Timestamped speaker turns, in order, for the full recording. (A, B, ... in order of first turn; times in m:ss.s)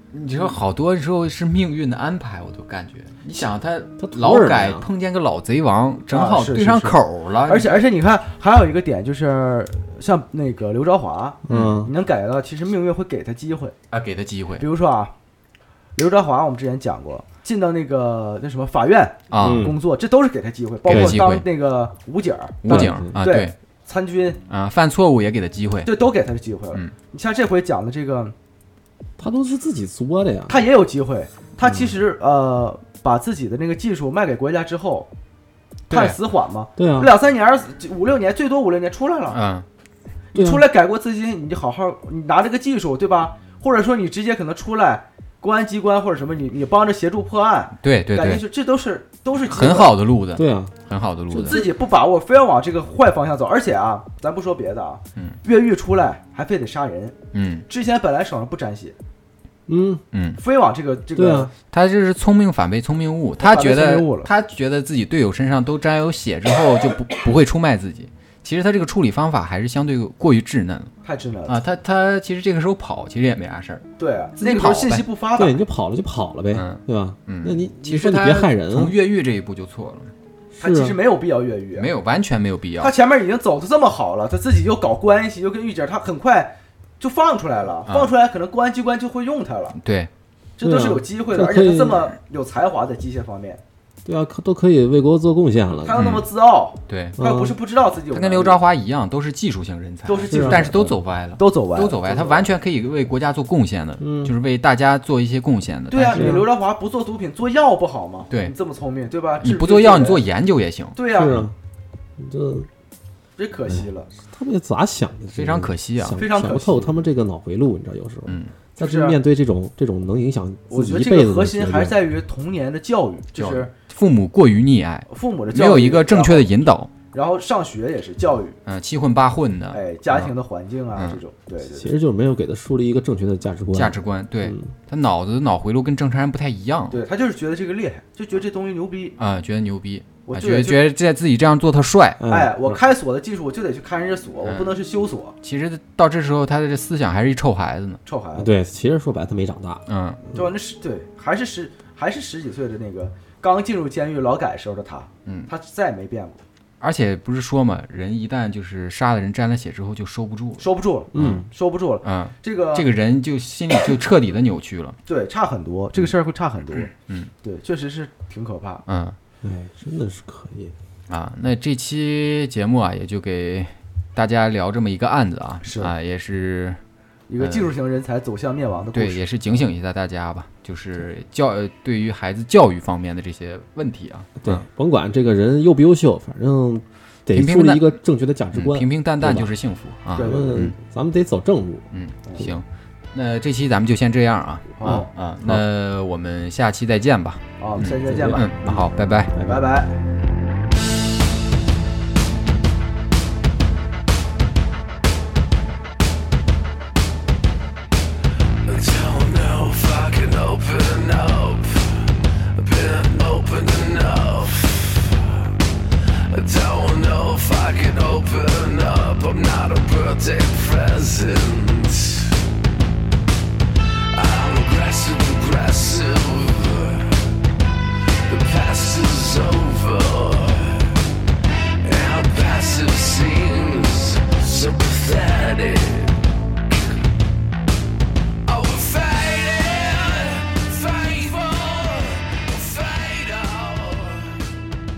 0:00.1-0:07.8 A
0:04.0-0:04.9 B
0:06.1-0:13.7 C
0:11.4-0:11.9 B
0:11.5-0:11.8 A
0:13.9-0:14.6 A
0:14.6-0:15.1 C
0:16.0-0:24.4 C
0:19.3-0:19.7 A
0:19.4-0:19.8 B
0:20.9-0:21.4 A
0:20.9-0:21.2 B
0:22.6-0:23.5 A
0:22.6-0:23.2 B
0:24.5-0:25.9 A
0:25.8-0:28.3 C
0:29.2-0:30.6 B
0:30.5-0:35.1 C
0:31.6-0:31.9 B
0:35.9-0:36.2 A
0:35.9-0:39.4 C
0:36.8-0:37.1 B
0:39.3-0:39.6 A
0:40.3-0:49.9 C
0:40.3-0:40.6 B
0:47.8-0:48.4 A
0:49.4-0:51.6 A
0:50.3-0:50.8 B
0:51.3-0:51.7 B
0:51.5-0:57.2 C
0:57.3-0:57.6 A
0:57.7-0:59.0 C
0:59.7-1:00.0 B
1:00.1-1:00.4 A
1:00.4-1:01.5 C
1:01.1-1:01.5 B
1:01.7-1:10.9 A
1:03.4-1:04.3 C
1:11.0-1:11.6 C
1:11.5-1:13.8 A
1:14.0-1:15.6 C
1:14.4-1:15.0 A
1:15.3-1:19.0 B
1:16.5-1:20.1 A
1:20.5-1:21.0 B
1:20.6-1:21.9 C
1:21.8-1:22.9 A
1:22.8-1:29.8 C
1:27.8-1:28.1 A
1:29.8-1:30.1 A
1:30.6-1:33.6 C
1:30.6-1:32.1 B
1:34.0-1:36.1 B
1:35.8-1:38.6 C
1:35.9-1:36.2 A
1:36.9-1:37.2 A
1:37.2-1:37.6 B
1:38.1-1:46.4 A
1:40.0-1:42.5 C
1:40.3-1:40.7 B
1:44.0-1:44.3 B
1:45.9-1:50.2 C
1:46.1-1:46.5 B
1:49.4-1:51.0 A
1:50.9-1:51.5 C
1:51.1-1:51.5 B
1:52.2-1:52.7 B
1:53.4-1:54.1 C
1:53.7-2:02.0 B
1:55.3-1:56.2 A
1:56.1-1:57.0 C
1:58.2-1:58.6 A
1:58.8-1:59.2 C
2:00.7-2:03.7 C
2:03.3-2:06.9 A
2:05.1-2:06.5 C
2:07.1-2:08.6 C
2:08.6-2:10.3 A
2:09.7-2:11.9 C
2:10.9-2:11.2 A
2:11.7-2:14.7 B
2:13.7-2:17.0 A
2:16.9-2:19.2 C
2:19.2-2:22.2 A
2:20.2-2:20.8 C
2:22.2-2:22.8 B
2:22.3-2:25.3 C
2:24.4-2:24.7 A
2:25.4-2:28.0 A
2:28.0-2:28.5 C
2:28.4-2:30.4 B
2:29.9-2:30.2 A
2:30.3-2:36.4 C
2:35.2-2:35.5 A
2:36.8-2:41.4 A
2:40.6-2:42.9 C
2:41.1-2:41.4 B
2:42.0-2:45.0 A
2:45.0-2:48.8 C
2:46.9-2:47.3 A
2:48.8-2:49.2 A
2:49.4-2:50.7 B
2:51.1-2:56.8 A
2:55.6-2:55.9 C
2:57.3-2:59.2 C
2:57.4-2:57.7 A
2:58.9-3:04.6 A
3:04.4-3:09.5 B
3:07.3-3:08.0 A
3:08.5-3:10.7 A
3:10.1-3:10.7 C
3:10.2-3:11.9 B
3:11.9-3:19.3 A
3:14.8-3:15.1 C
3:14.8-3:15.6 B
3:17.6-3:18.7 C
3:18.0-3:19.6 B
3:19.4-3:20.0 C
3:28.6-3:35.5 D
3:36.1-3:42.4 D
3:44.1-3:47.4 D
3:48.2-3:51.1 D
3:51.8-3:56.3 D
3:58.4-4:04.5 D